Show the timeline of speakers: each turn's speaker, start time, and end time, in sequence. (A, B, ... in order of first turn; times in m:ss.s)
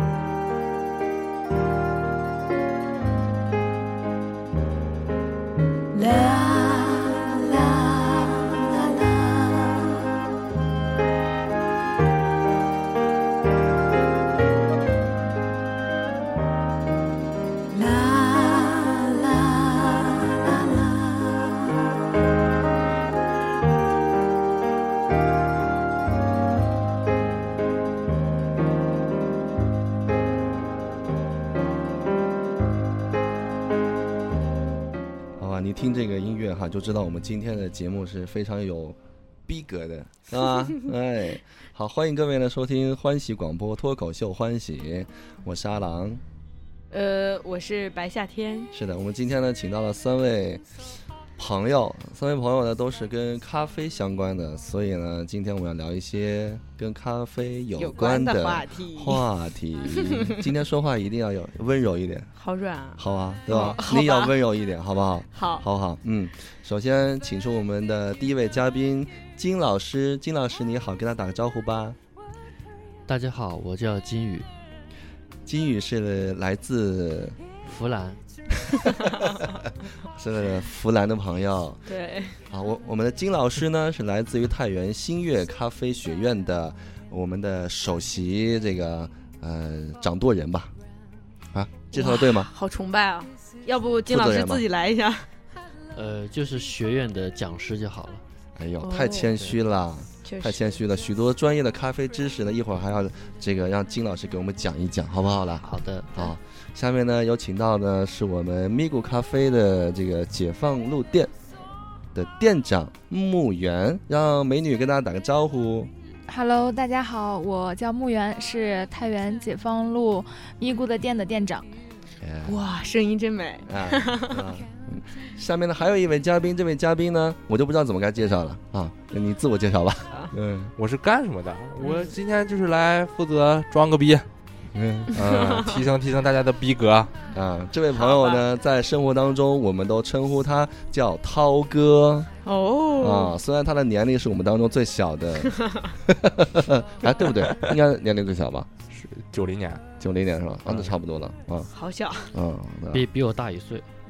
0:05.9-0:09.8 A
0:17.7-0:20.8 A
0:35.4-0:46.2 B
0:46.9-0:48.7 C
0:48.7-0:50.6 B
0:51.4-1:02.3 B
0:57.8-0:59.2 C
1:00.0-1:00.4 C
1:02.4-1:04.3 C
1:03.0-1:12.0 B
1:05.3-1:05.6 C
1:13.1-1:14.5 D
1:15.4-1:17.4 B
1:17.7-1:18.2 D
1:18.7-1:19.1 B
1:20.1-1:21.9 B
1:21.9-1:22.4 C
1:22.5-1:30.7 B
1:31.5-1:32.5 B
1:31.9-1:35.3 C
1:34.1-1:34.6 B
1:35.9-1:38.2 D
1:38.6-1:51.3 B
1:38.8-1:39.3 C
1:40.2-1:40.8 C
1:45.6-1:46.3 D
1:52.1-1:55.9 B
1:56.3-2:01.7 E
2:02.2-2:02.6 B
2:02.5-2:04.4 C
2:03.7-2:10.7 B
2:10.8-2:14.3 F
2:11.8-2:12.2 C
2:14.7-2:15.7 B
2:15.2-2:15.7 C
2:15.3-2:17.1 F
2:17.3-2:22.3 B
2:17.9-2:18.4 C
2:22.4-2:23.3 C
2:23.0-2:28.7 B
2:25.5-2:25.9 C
2:27.4-2:27.7 F
2:28.9-2:29.8 F
2:30.0-2:31.7 B
2:31.7-2:32.3 C
2:32.3-2:33.0 B
2:32.9-2:33.8 D